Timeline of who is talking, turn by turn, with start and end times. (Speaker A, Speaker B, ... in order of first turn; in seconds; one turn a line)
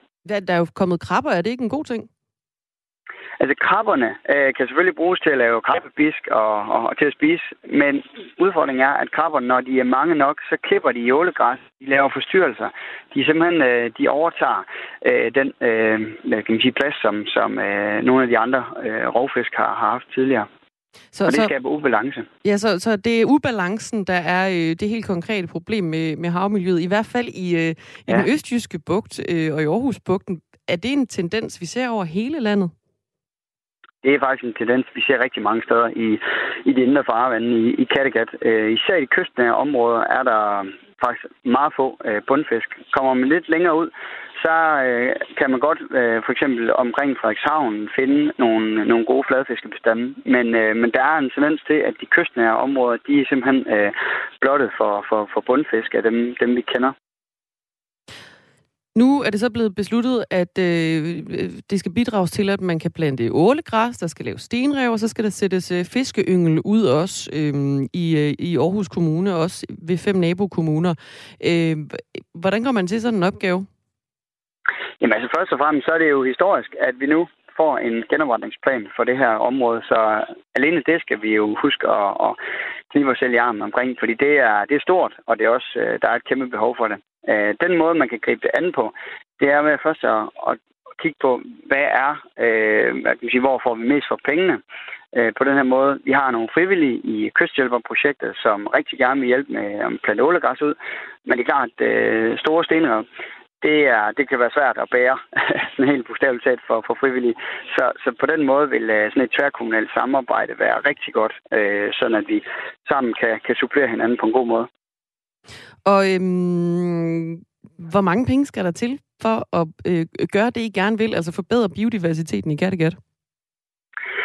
Speaker A: 0.2-2.1
Speaker B: 3.4-20.5
Speaker A: 21.1-21.5
Speaker B: 21.3-22.3
Speaker A: 22.4-32.7
Speaker B: 34.0-56.9
Speaker A: 59.0-73.7
Speaker B: 75.0-82.4
Speaker B: 82.9-94.6
Speaker B: 95.1-103.1
Speaker B: 103.6-114.7
Speaker A: 115.8-123.0